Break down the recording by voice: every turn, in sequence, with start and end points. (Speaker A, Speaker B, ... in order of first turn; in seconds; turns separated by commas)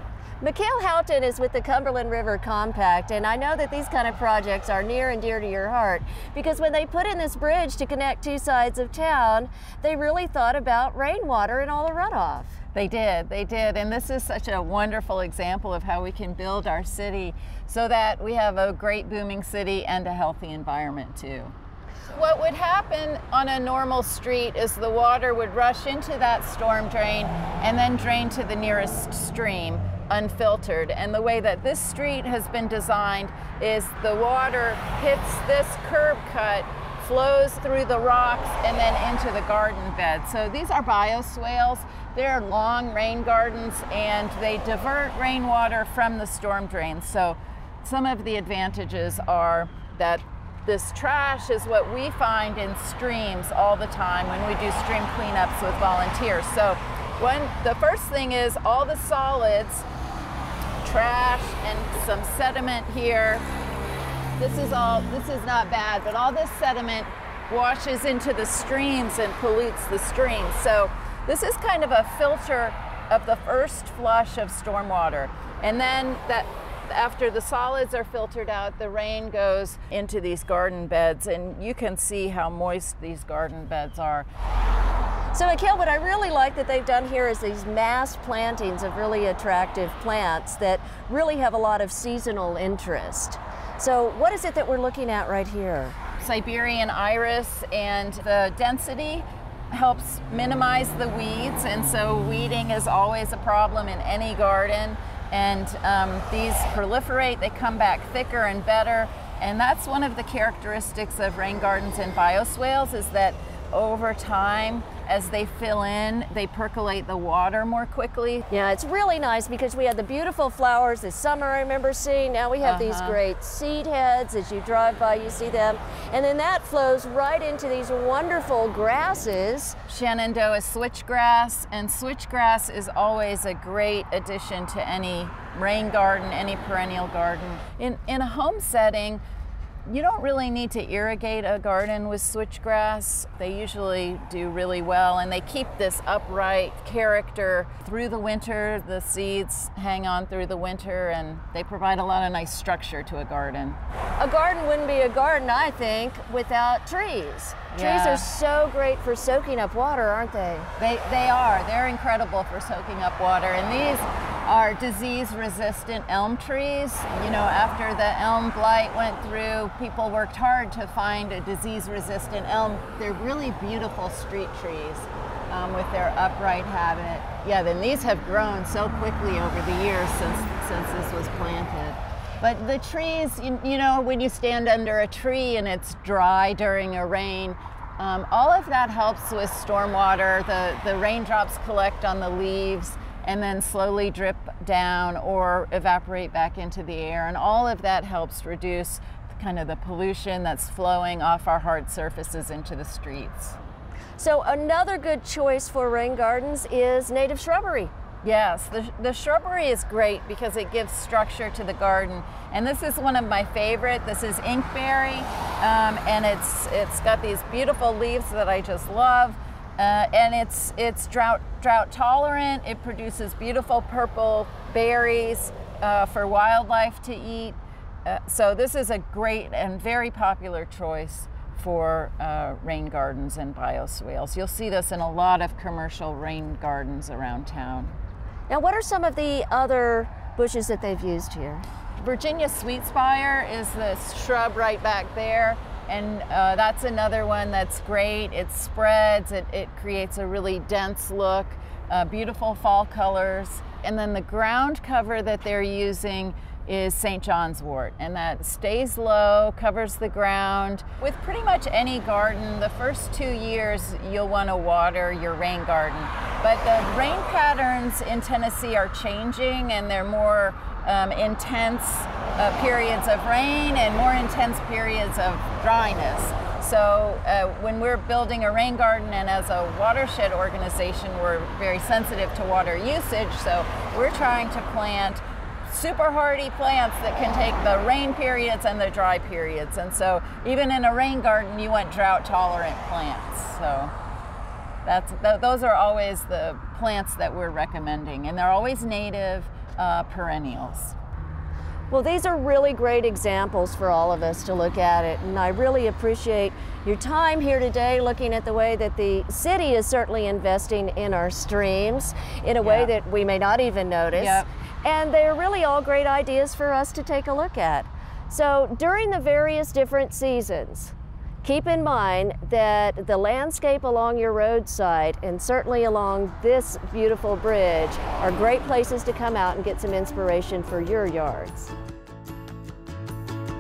Speaker A: 0.4-12.6, Speaker B: 12.7-21.6, Speaker B: 22.1-59.9, Speaker B: 60.8-63.5, Speaker B: 64.4-84.3, Speaker A: 85.3-96.0, Speaker B: 96.2-118.5, Speaker A: 118.5-129.8, Speaker B: 122.6-123.2, Speaker B: 129.9-139.2, Speaker B: 139.9-153.8, Speaker A: 154.2-160.7, Speaker B: 157.7-158.3, Speaker B: 160.8-203.6, Speaker A: 204.2-207.9, Speaker B: 208.2-238.0, Speaker A: 238.5-241.7, Speaker B: 242.0-293.9, Speaker B: 294.9-301.0, Speaker A: 301.9-331.7, Speaker B: 312.6-312.9, Speaker B: 314.1-314.5